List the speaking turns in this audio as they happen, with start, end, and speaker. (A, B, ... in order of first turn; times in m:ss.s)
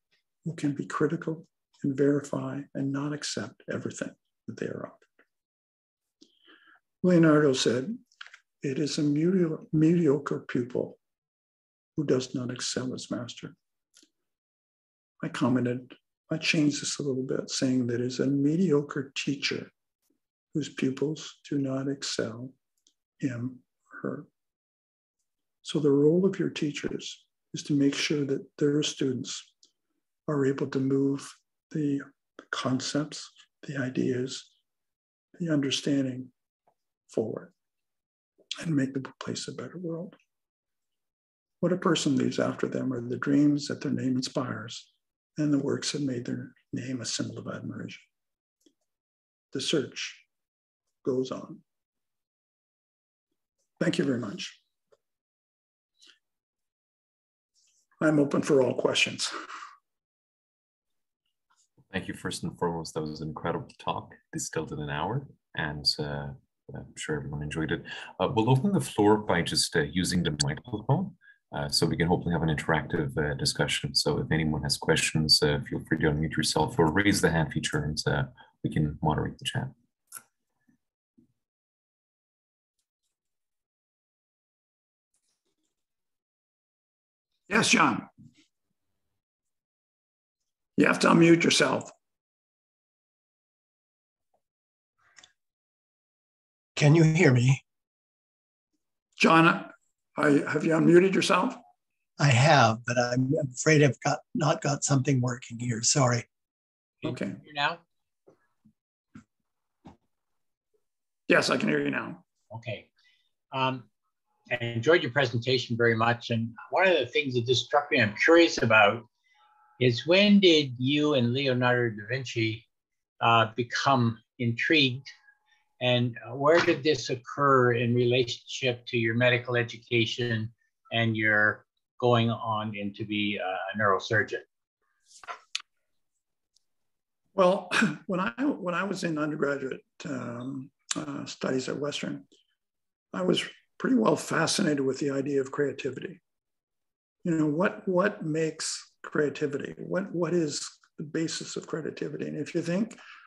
0:00.4-0:05.1 A
0:07.0-0:08.0 A
0:08.6-0:11.0 A
0:12.0-0:13.6 A
0:15.2-0:19.7 A
0:20.5-0:22.5 A
0:23.2-0:24.3 A
0:25.6-0:29.5 A
0:30.3-0:34.5 A
0:35.4-0:36.3 A
0:37.1-0:37.5 A
0:38.6-0:40.2 A
0:41.6-0:48.1 A
0:49.5-0:50.2 A
0:51.0-0:51.6 A
0:53.8-0:54.6 A
0:58.0-0:59.3 A
1:01.9-1:19.7 B
1:27.5-1:28.1 A
1:30.8-1:31.9 A
1:36.8-1:37.6 C
1:39.2-1:41.6 A
1:42.2-1:46.3 C
1:47.0-1:47.8 D
1:51.3-1:52.2 A
1:52.5-1:52.9 D
1:53.5-1:53.9 D
1:54.5-1:59.1 D
1:59.8-2:02.6 D
2:03.2-2:05.1 D
2:05.8-2:14.4 D
2:17.4-2:22.3 A
2:23.1-2:26.2 A
2:27.2-2:33.0 A